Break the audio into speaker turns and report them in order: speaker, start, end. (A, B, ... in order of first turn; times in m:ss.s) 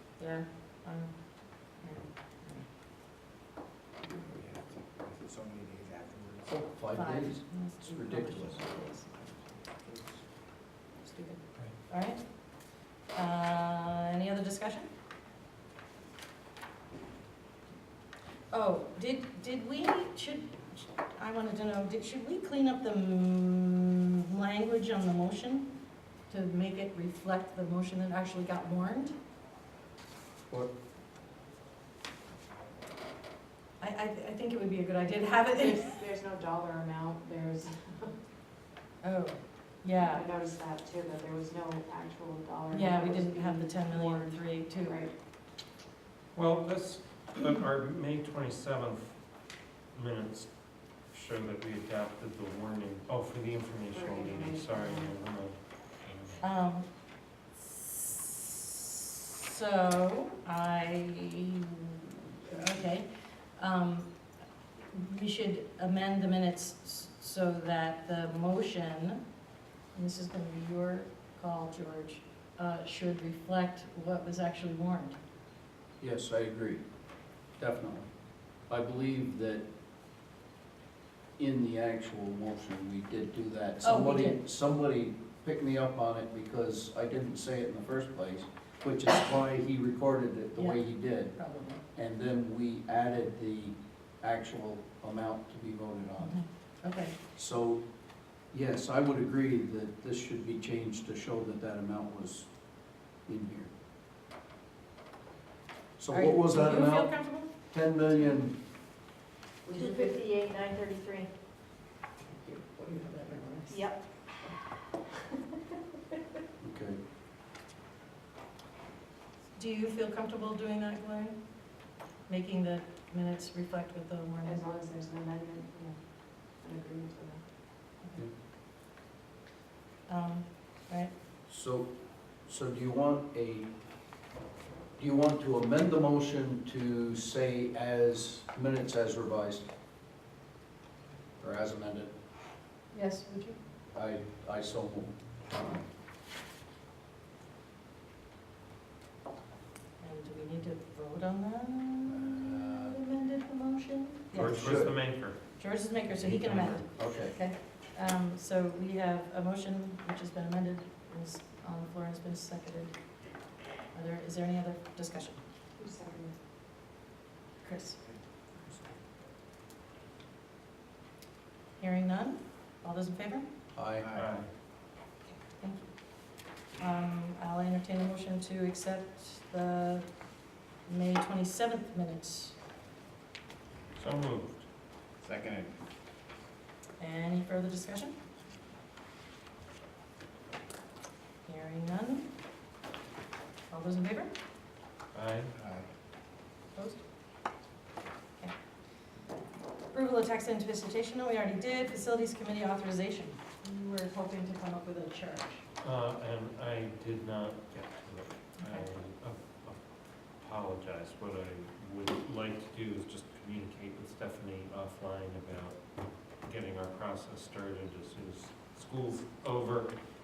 0:00.2-0:02.7 A
0:04.0-0:06.6 B
0:06.5-0:08.7 C
0:06.9-0:09.1 A
0:09.7-0:10.0 A
0:10.7-0:14.8 A
0:18.5-0:25.7 A
0:26.3-0:29.1 A
0:33.8-0:36.0 A
0:35.5-0:38.2 D
0:39.0-0:40.2 A
0:40.0-0:45.1 D
0:42.7-0:45.0 A
0:46.3-0:49.2 E
0:49.9-0:50.5 E
0:51.1-0:56.4 E
0:53.9-0:55.1 D
0:56.4-0:56.9 A
0:57.5-1:04.1 A
1:04.9-1:09.2 A
1:09.9-1:15.2 A
1:16.0-1:16.8 C
1:17.6-1:18.1 C
1:18.7-1:19.6 C
1:21.4-1:31.4 C
1:23.8-1:24.4 A
1:30.6-1:31.8 A
1:31.9-1:36.3 C
1:36.2-1:37.1 A
1:37.3-1:37.8 C
1:38.5-1:42.5 C
1:43.2-1:43.7 C
1:46.0-1:48.5 C
1:46.1-1:47.5 A
1:49.6-1:50.2 A
1:49.7-1:51.3 D
1:52.3-1:53.8 A
1:53.7-1:54.3 D
1:56.6-1:57.0 C
1:59.5-2:01.4 A
2:02.3-2:04.6 A
2:04.4-2:07.4 D
2:10.1-2:11.1 A
2:11.5-2:11.9 C
2:12.4-2:13.7 C
2:15.0-2:19.6 C
2:21.4-2:22.1 C
2:22.9-2:23.6 A
2:23.9-2:25.1 C
2:30.0-2:34.7 A
2:32.1-2:33.0 C
2:34.3-2:35.4 E
2:34.4-2:34.9 C
2:35.6-2:42.9 A
2:36.2-2:37.4 C
2:43.9-2:45.4 A
2:45.8-2:46.4 D
2:47.6-2:48.0 A
2:51.8-2:53.4 A
2:53.7-2:54.1 C
2:54.0-2:54.4 B
2:54.1-2:54.5 E
2:55.6-2:55.9 A
2:56.8-3:00.1 A
3:00.8-3:02.6 A
3:04.0-3:04.6 E
3:05.2-3:05.8 B
3:07.0-3:08.1 A
3:11.4-3:12.3 A
3:13.7-3:14.3 A
3:15.1-3:15.5 E
3:15.5-3:15.9 B
3:19.9-3:25.6 A
3:25.8-3:29.8 E
3:30.4-3:35.8 E
3:36.4-3:39.9 E